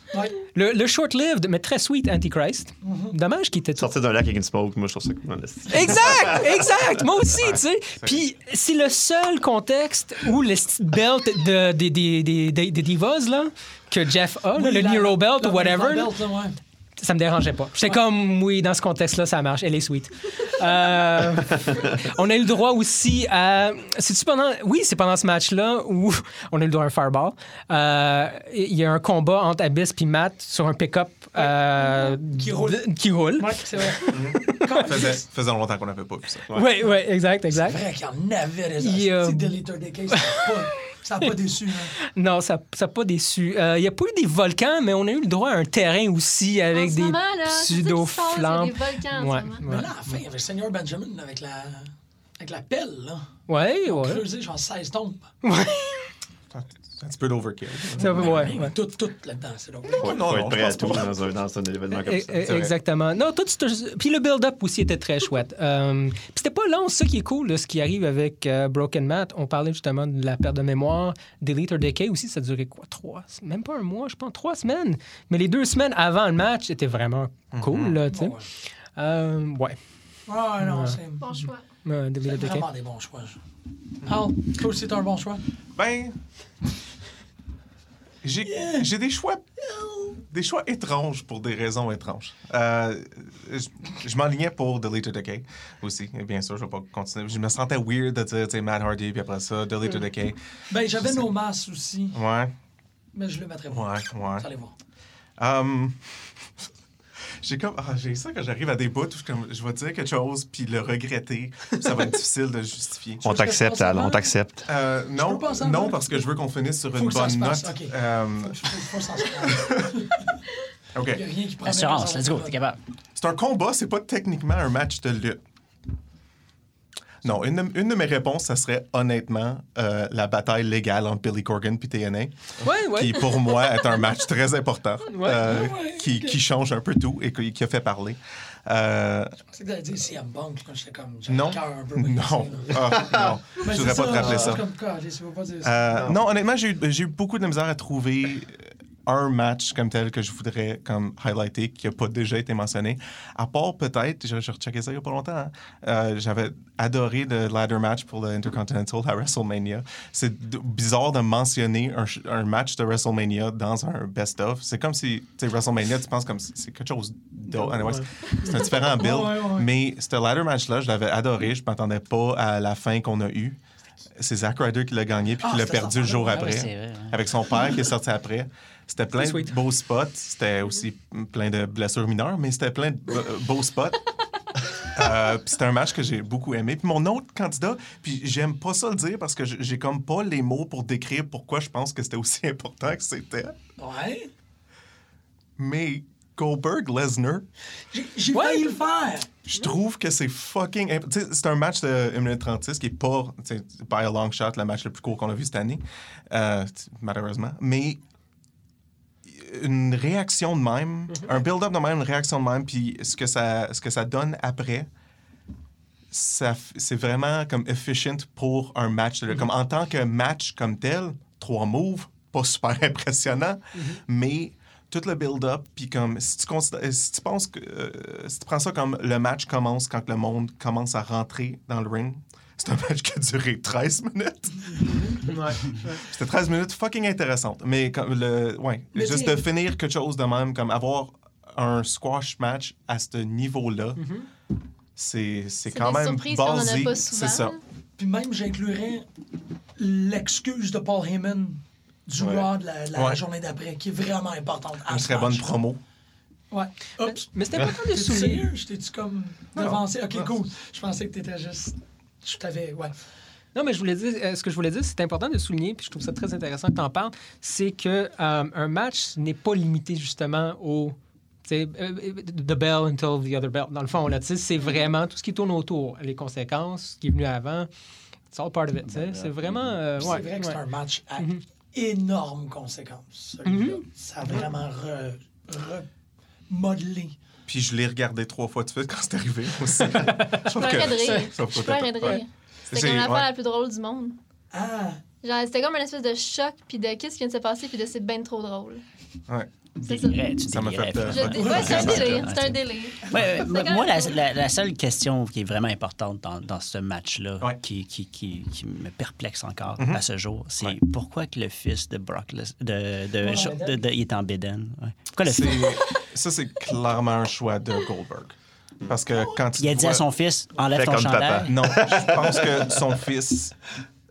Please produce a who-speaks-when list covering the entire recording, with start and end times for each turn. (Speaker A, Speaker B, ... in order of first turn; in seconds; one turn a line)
Speaker A: 0.1-0.4
Speaker B: 0.4-3.9
Speaker A: 2.8-3.2
Speaker C: 3.8-6.7
Speaker B: 5.7-16.2
Speaker D: 7.3-8.2
Speaker A: 14.5-16.6
Speaker B: 17.0-34.9
Speaker A: 31.4-35.2
Speaker D: 34.1-36.6
Speaker B: 36.5-37.8
Speaker A: 37.5-41.9
Speaker B: 38.8-41.3
Speaker B: 41.9-50.2
Speaker E: 46.7-49.6
Speaker A: 49.7-53.3
Speaker B: 53.5-54.3
Speaker A: 53.9-55.3
Speaker B: 55.4-56.1
Speaker D: 56.5-58.5
Speaker B: 58.0-58.8
Speaker A: 58.0-60.2
Speaker D: 60.0-61.2
Speaker C: 60.0-62.5
Speaker B: 61.9-78.4
Speaker D: 62.4-62.7
Speaker D: 77.5-78.0
Speaker A: 78.1-78.5
Speaker B: 79.0-79.8
Speaker A: 80.3-81.2
Speaker B: 80.6-82.7
Speaker E: 81.2-81.6
Speaker A: 82.2-83.4
Speaker A: 84.0-85.4
Speaker D: 85.8-86.2
Speaker D: 88.2-89.4
Speaker A: 88.5-88.9
Speaker A: 89.6-90.2
Speaker D: 90.3-100.4
Speaker A: 100.7-102.2
Speaker D: 100.9-101.3
Speaker D: 102.1-102.5
Speaker A: 103.1-104.7
Speaker D: 103.7-104.5
Speaker D: 105.4-106.3
Speaker D: 107.4-113.3
Speaker C: 113.2-114.7
Speaker A: 113.3-114.4
Speaker D: 114.7-118.6
Speaker A: 115.1-116.3
Speaker A: 116.9-120.3
Speaker D: 119.4-119.9
Speaker D: 121.0-121.2
Speaker A: 121.1-122.6
Speaker F: 121.6-122.8
Speaker D: 123.2-125.4
Speaker D: 127.2-139.4
Speaker B: 132.6-133.6
Speaker B: 135.1-135.5
Speaker A: 135.4-136.4
Speaker A: 139.5-146.1
Speaker D: 141.3-144.6
Speaker C: 143.1-143.3
Speaker C: 144.0-144.6
Speaker D: 145.6-173.6
Speaker B: 168.0-168.5
Speaker A: 168.5-169.7
Speaker D: 174.2-184.0
Speaker A: 175.4-176.5
Speaker F: 176.3-177.2
Speaker B: 179.2-179.5
Speaker D: 184.9-193.6
Speaker A: 193.8-194.3
Speaker D: 195.6-197.5
Speaker A: 197.9-199.3
Speaker B: 198.3-198.8
Speaker D: 199.5-208.0
Speaker D: 209.3-214.9
Speaker D: 216.1-244.1
Speaker B: 235.0-236.0
Speaker A: 238.9-239.5
Speaker B: 244.0-244.3
Speaker D: 245.0-247.6
Speaker E: 245.7-247.6
Speaker A: 248.0-249.1
Speaker A: 249.8-255.6
Speaker D: 252.2-253.2
Speaker D: 254.9-255.8
Speaker A: 256.5-262.9
Speaker B: 257.0-258.5
Speaker D: 259.6-260.3
Speaker B: 263.6-277.7
Speaker B: 278.3-280.6
Speaker F: 278.8-280.2
Speaker A: 280.0-285.9
Speaker B: 281.2-281.4
Speaker B: 283.4-283.9
Speaker A: 286.5-287.2
Speaker D: 287.5-293.3
Speaker B: 289.9-291.3
Speaker E: 290.6-294.2
Speaker A: 294.5-295.0
Speaker E: 295.2-298.8
Speaker F: 299.8-315.8
Speaker E: 299.9-300.2
Speaker D: 300.4-302.3
Speaker E: 301.1-304.1
Speaker A: 301.4-302.0
Speaker A: 313.2-313.8
Speaker D: 315.2-320.1
Speaker F: 319.6-321.6
Speaker C: 320.7-322.9
Speaker D: 321.4-323.6